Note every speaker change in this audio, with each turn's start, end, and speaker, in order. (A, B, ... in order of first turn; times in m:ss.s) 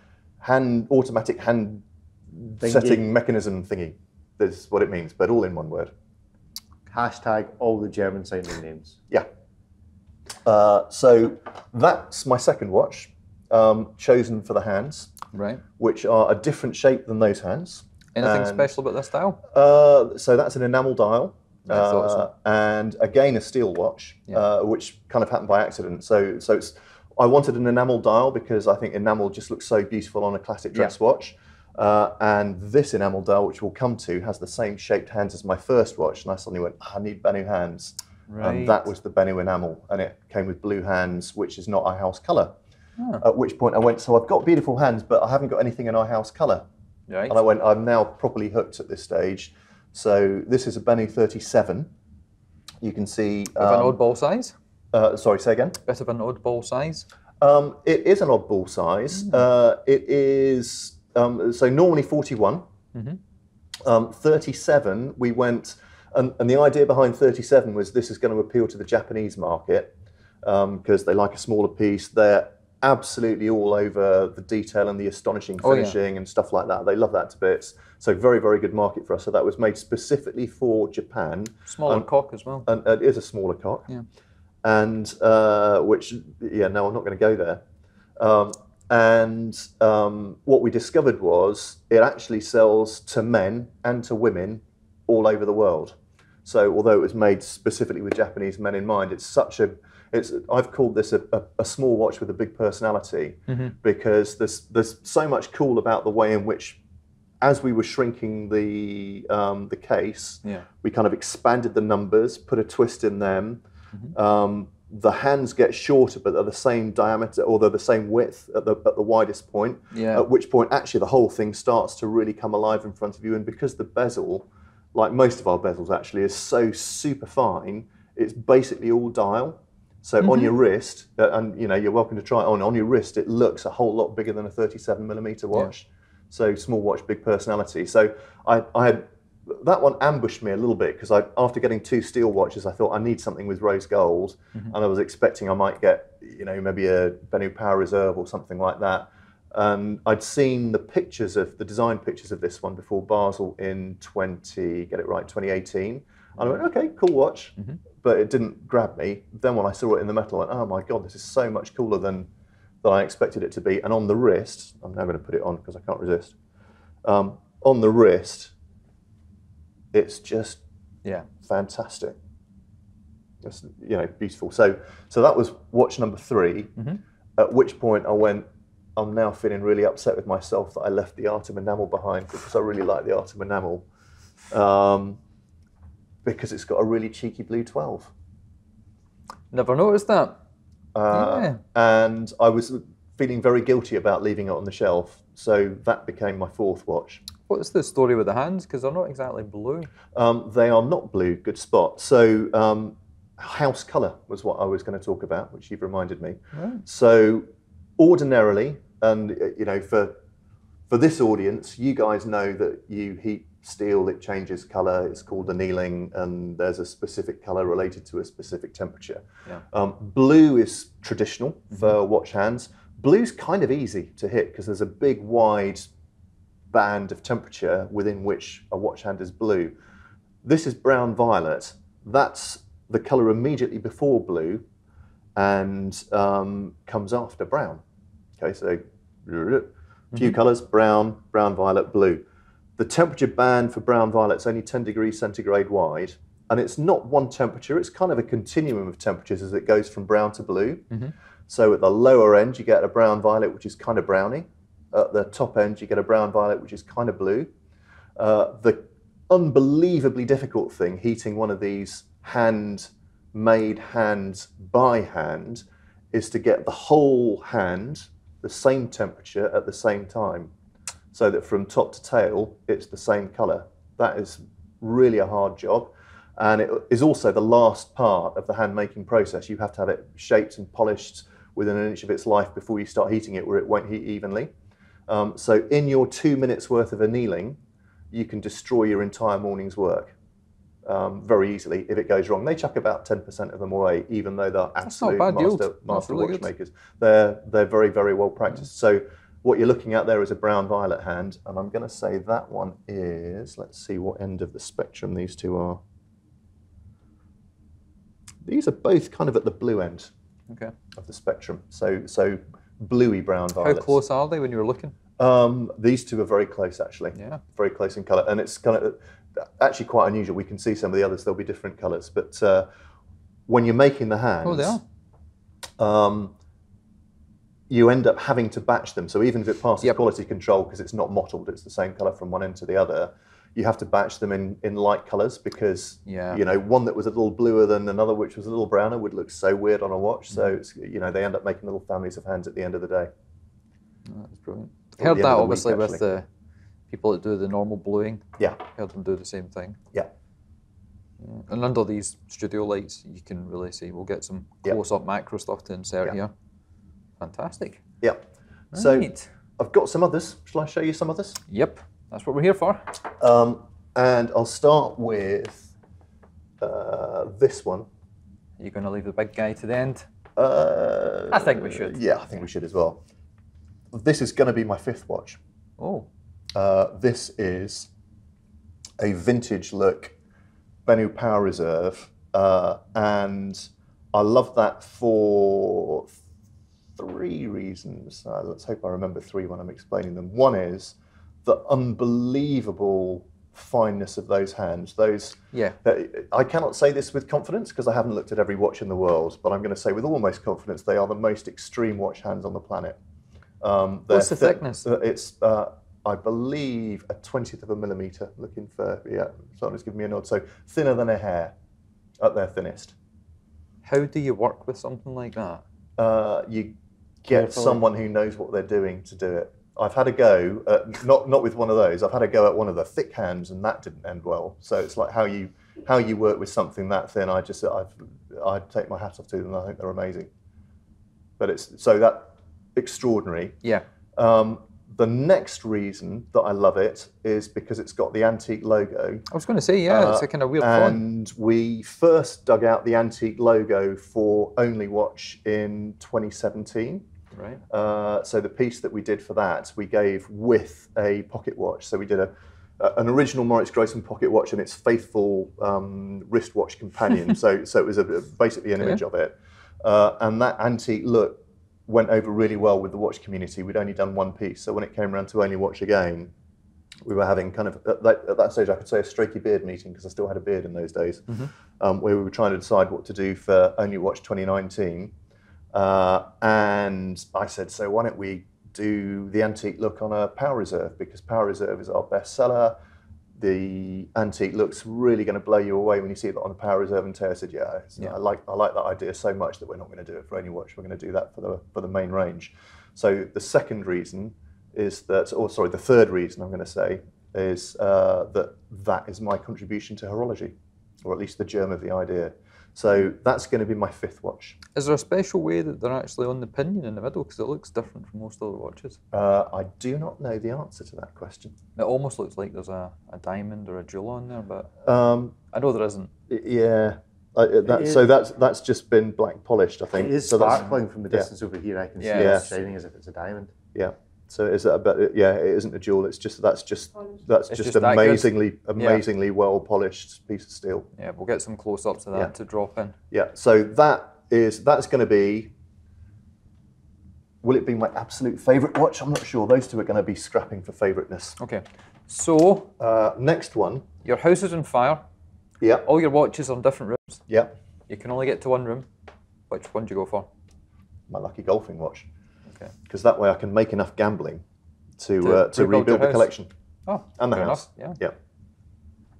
0:00.4-0:05.9 A
0:02.6-0:03.0 B
0:06.9-0:09.0 B
0:10.4-0:15.2 A
0:15.3-0:15.6 C
0:15.8-0:18.7 A
0:18.2-0:19.4 C
0:19.4-0:42.5 A
0:21.7-0:22.3 C
0:38.3-0:38.8 C
0:43.2-0:46.7 A
0:47.1-0:47.4 C
0:47.3-0:51.9 A
0:52.8-0:54.0 A
0:53.6-0:54.5 C
0:54.9-0:55.8 A
0:55.9-0:57.1 C
0:57.4-1:02.6 A
1:03.8-1:22.1 A
1:15.6-1:16.0 C
1:21.7-1:22.7 C
1:22.6-1:23.9 A
1:24.6-1:27.6 A
1:28.2-1:46.8 A
1:43.5-1:43.8 C
1:47.4-1:53.6 A
1:54.1-2:42.3 A
1:59.9-2:00.3 C
2:10.2-2:10.5 C
2:42.8-2:46.4 A
2:47.0-2:48.5 A
2:49.9-2:50.6 A
2:51.3-2:52.2 A
2:53.4-2:56.7 A
2:57.4-3:03.9 A
3:04.5-3:05.2 A
3:06.2-3:08.1 A
3:09.5-3:10.4 C
3:11.0-3:17.2 A
3:11.1-3:11.6 C
3:17.4-3:19.9 C
3:20.1-3:27.5 A
3:26.6-3:26.8 C
3:28.0-3:30.2 A
3:30.9-3:45.9 A
3:46.7-3:49.7 A
3:50.4-3:54.6 A
3:55.4-3:57.8 A
3:58.4-4:02.2 A
4:02.8-4:10.9 A
4:11.5-4:17.5 A
4:18.2-4:30.5 A
4:31.1-4:44.5 A
4:45.1-4:47.6 A
4:48.1-4:50.2 A
4:50.9-5:05.8 A
4:54.8-4:56.5 C
5:08.4-5:10.1 A
5:11.0-5:14.0 A
5:13.6-5:15.0 C
5:15.2-5:22.7 A
5:23.5-5:24.8 A
5:24.4-5:24.8 C
5:25.8-5:26.3 A
5:27.7-5:43.1 A
5:36.1-5:36.4 C
5:44.1-5:46.3 C
5:45.0-5:46.0 A
5:46.9-5:49.8 C
5:51.2-5:56.3 C
5:57.2-5:57.8 C
5:58.7-6:01.4 A
5:58.7-5:59.3 C
6:01.5-6:02.9 C
6:03.1-6:05.7 A
6:06.6-6:07.9 A
6:08.6-6:10.1 C
6:10.4-6:13.0 A
6:11.3-6:12.0 C
6:13.9-6:15.4 A
6:15.8-6:16.1 C
6:16.5-6:17.9 A
6:19.0-6:20.2 A
6:20.9-6:26.2 A
6:27.0-6:43.0 A
6:43.6-6:51.6 A
6:44.1-6:44.9 C
6:52.2-6:53.0 A
6:53.8-6:55.6 C
6:56.0-6:56.7 A
6:57.2-6:57.8 B
6:57.2-7:10.3 A
7:11.4-7:13.6 A
7:14.2-7:19.3 A
7:19.3-7:21.0 C
7:19.9-7:27.1 A
7:27.3-7:27.6 C
7:27.7-7:46.3 A
7:47.0-7:55.1 A
7:55.7-8:02.8 A
8:03.4-8:24.6 A
8:24.8-8:29.0 C
8:29.1-8:31.6 A
8:31.8-8:34.7 C
8:34.8-8:35.4 A
8:35.5-8:36.1 C
8:36.3-8:41.3 A
8:37.7-8:38.0 B
8:39.9-8:43.5 B
8:42.0-8:42.5 C
8:42.2-8:42.5 A
8:43.7-8:50.9 A
8:47.5-8:49.0 C
8:51.0-8:53.0 C
8:53.1-8:55.5 A
8:57.4-9:01.4 A
9:01.4-9:02.7 C
9:02.8-9:03.9 A
9:04.0-9:05.0 C
9:05.6-9:05.9 A
9:05.8-9:07.2 C
9:07.3-9:07.5 A
9:07.9-9:08.9 C
9:09.5-9:10.3 C
9:11.1-9:12.1 A
9:12.9-9:14.4 A
9:15.0-9:16.5 A
9:15.2-9:16.3 C
9:16.9-9:18.0 C
9:17.2-9:18.2 A